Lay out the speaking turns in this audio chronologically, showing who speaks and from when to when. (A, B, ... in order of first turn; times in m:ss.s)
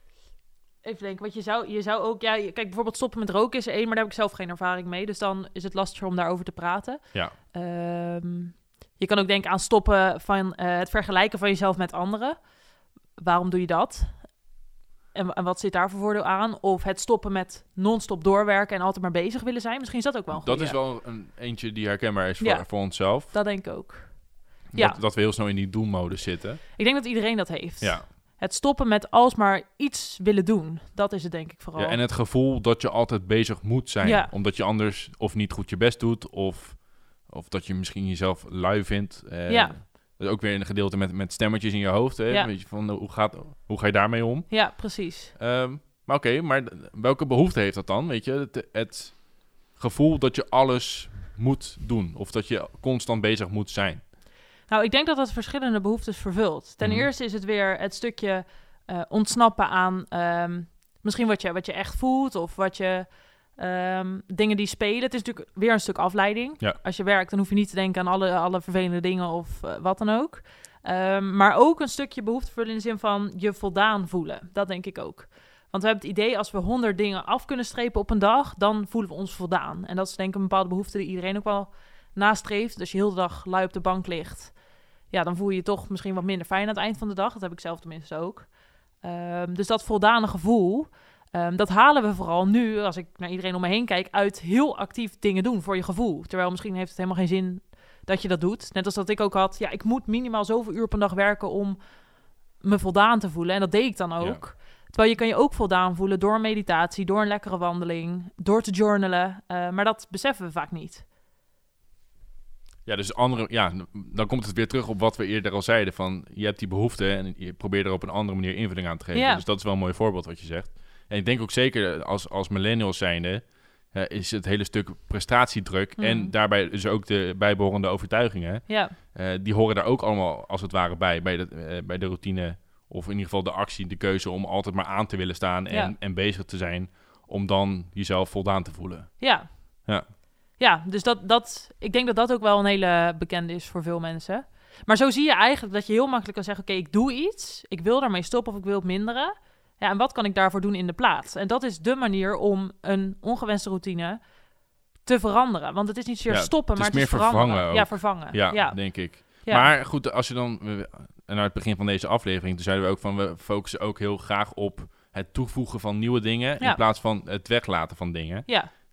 0:00.8-0:07.0 A
0:07.5-0:12.4 A
0:13.2-0:14.1 A
0:15.1-0:20.8 A
0:20.3-0:23.3 B
0:22.4-0:24.1 A
0:24.7-0:26.6 B
0:26.8-0:32.0 A
0:31.8-0:44.5 B
0:34.0-0:34.3 A
0:39.5-0:39.8 A
0:44.5-0:45.3 A
0:45.3-0:54.0 B
0:54.7-1:24.5 A
0:56.8-0:57.1 B
1:25.1-1:28.5 A
1:29.0-1:41.8 A
1:42.6-1:51.0 A
1:52.8-2:19.1 B
1:59.1-1:59.4 A
2:06.0-2:06.3 A
2:08.7-2:09.0 A
2:19.2-2:19.5 A
2:20.6-2:34.2 A
2:35.0-2:39.7 A
2:36.3-2:48.5 B